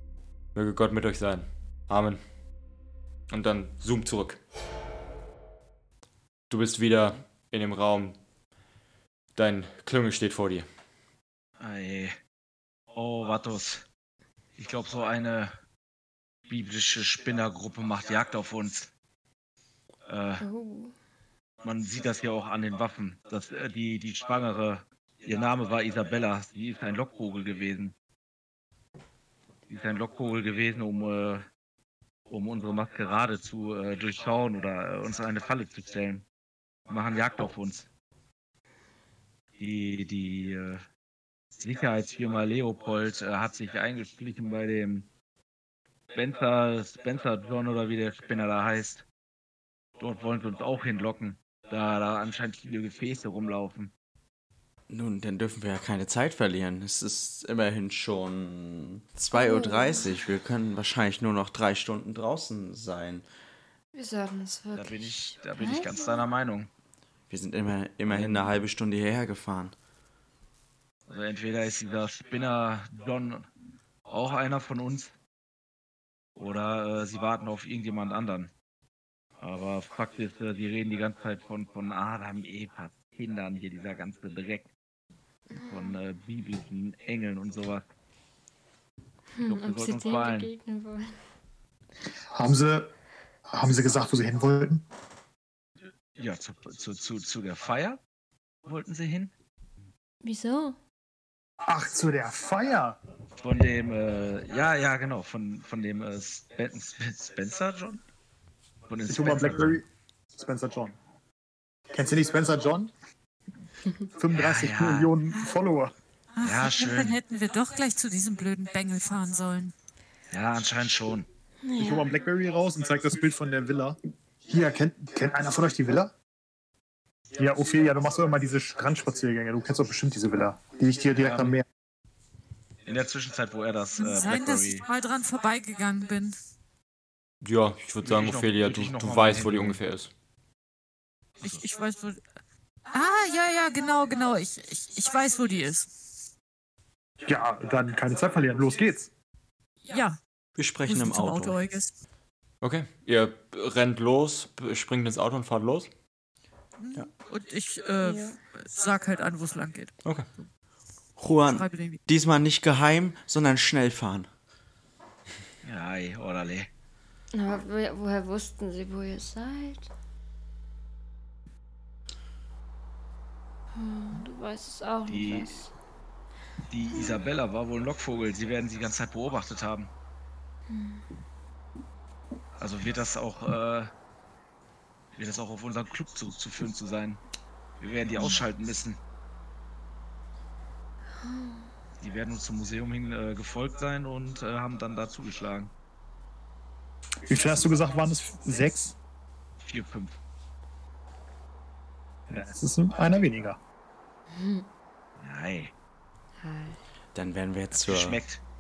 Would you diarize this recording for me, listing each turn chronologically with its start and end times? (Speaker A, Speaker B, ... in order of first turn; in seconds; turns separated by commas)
Speaker A: 0.5-2.2, Speaker A: 3.3-4.4, Speaker A: 6.5-8.2, Speaker A: 9.4-10.7, Speaker B: 11.6-12.2, Speaker B: 12.9-13.9, Speaker B: 14.6-15.5, Speaker B: 16.5-18.9, Speaker B: 20.1-20.4, Speaker C: 20.4-20.9, Speaker B: 21.6-27.9, Speaker B: 29.7-31.5, Speaker B: 32.3-36.2, Speaker B: 36.9-37.9, Speaker B: 39.6-40.8, Speaker B: 41.6-45.1, Speaker B: 46.1-49.0, Speaker B: 50.0-53.9, Speaker D: 54.9-63.3, Speaker C: 59.3-60.2, Speaker C: 63.9-66.2, Speaker B: 64.7-66.7, Speaker D: 67.3-69.8, Speaker B: 68.1-68.5, Speaker B: 71.1-73.5, Speaker B: 74.1-75.1, Speaker B: 76.4-78.5, Speaker B: 79.4-84.7, Speaker C: 85.5-86.0, Speaker B: 85.6-87.8, Speaker C: 89.3-91.2, Speaker B: 89.5-90.5, Speaker E: 92.3-92.9, Speaker E: 93.5-94.9, Speaker B: 96.2-98.0, Speaker B: 98.7-99.3, Speaker C: 100.2-100.8, Speaker E: 101.7-103.0, Speaker B: 103.4-108.0, Speaker B: 108.9-109.8, Speaker E: 109.1-109.8, Speaker E: 110.4-111.0, Speaker E: 111.9-112.9, Speaker E: 114.1-115.9, Speaker B: 114.3-115.1, Speaker F: 116.3-119.7, Speaker B: 116.4-117.2, Speaker B: 120.3-121.3, Speaker C: 121.6-122.1, Speaker E: 121.8-126.1, Speaker E: 127.4-131.7, Speaker B: 131.2-131.6, Speaker B: 132.8-134.9, Speaker F: 134.0-136.4, Speaker A: 137.4-140.1, Speaker B: 138.0-139.8, Speaker F: 141.4-142.2, Speaker F: 142.9-146.1, Speaker E: 147.2-149.1, Speaker F: 149.9-150.2, Speaker D: 150.6-151.6, Speaker F: 150.8-151.9, Speaker A: 152.6-155.9, Speaker F: 156.8-159.9, Speaker C: 158.0-158.4, Speaker D: 161.2-164.3, Speaker F: 161.4-162.0, Speaker B: 165.6-166.7, Speaker C: 167.3-169.9, Speaker C: 173.7-175.7, Speaker B: 175.1-175.6, Speaker B: 176.7-179.9, Speaker C: 180.7-181.1, Speaker B: 182.6-183.9, Speaker B: 185.2-187.2, Speaker B: 187.8-189.0, Speaker C: 191.2-191.7, Speaker B: 192.0-195.7, Speaker E: 197.3-198.9, Speaker B: 199.6-200.2, Speaker E: 202.3-203.6, Speaker C: 204.3-204.7, Speaker B: 205.2-205.7, Speaker C: 206.4-206.8, Speaker D: 207.2-208.2, Speaker B: 207.8-208.4